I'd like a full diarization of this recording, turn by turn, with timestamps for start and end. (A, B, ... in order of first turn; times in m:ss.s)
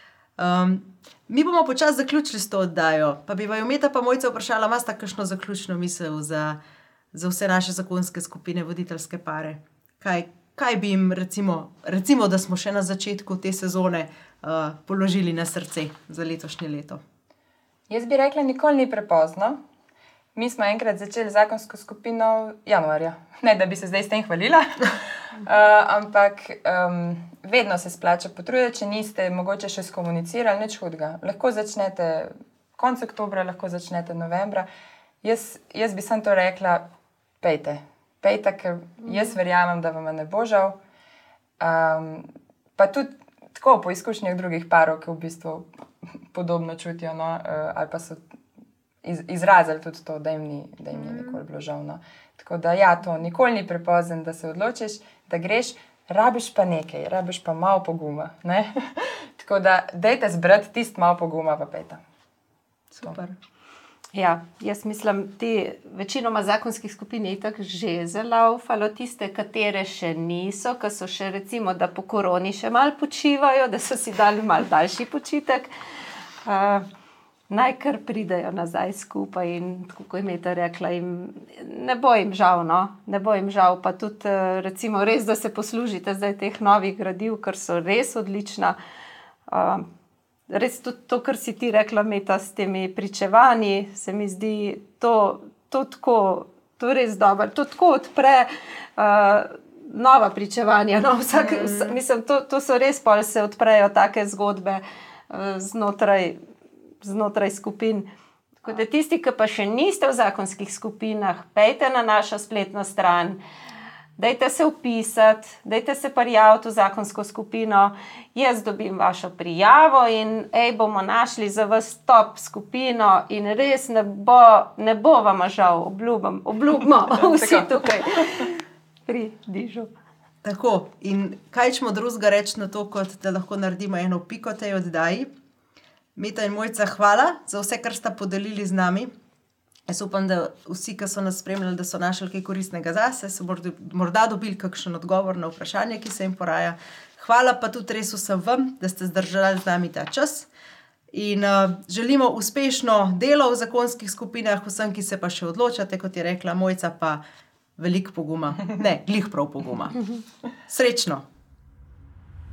0:00.4-0:06.6 A
0:07.1-0:17.0 A
0:17.9-0:19.6 B
0:20.4-0:34.7 B
0:35.2-0:36.8 B
0:37.4-0:40.8 B
0:41.6-0:45.7 B
0:46.3-0:48.2 B
0:49.0-1:02.0 B
0:50.9-0:51.4 A
1:02.9-1:03.4 A
1:04.1-1:15.7 C
1:16.4-1:16.9 C
1:17.5-1:28.8 C
1:29.5-1:29.9 C
1:30.5-1:46.4 C
1:41.3-1:42.0 A
1:47.0-1:48.1 C
1:48.6-1:53.4 C
1:54.2-2:09.9 C
2:07.1-2:08.5 B
2:10.4-2:15.3 A
2:16.2-2:19.1 A
2:19.9-2:30.5 A
2:31.1-2:37.2 A
2:37.8-2:40.0 A
2:40.7-2:41.3 A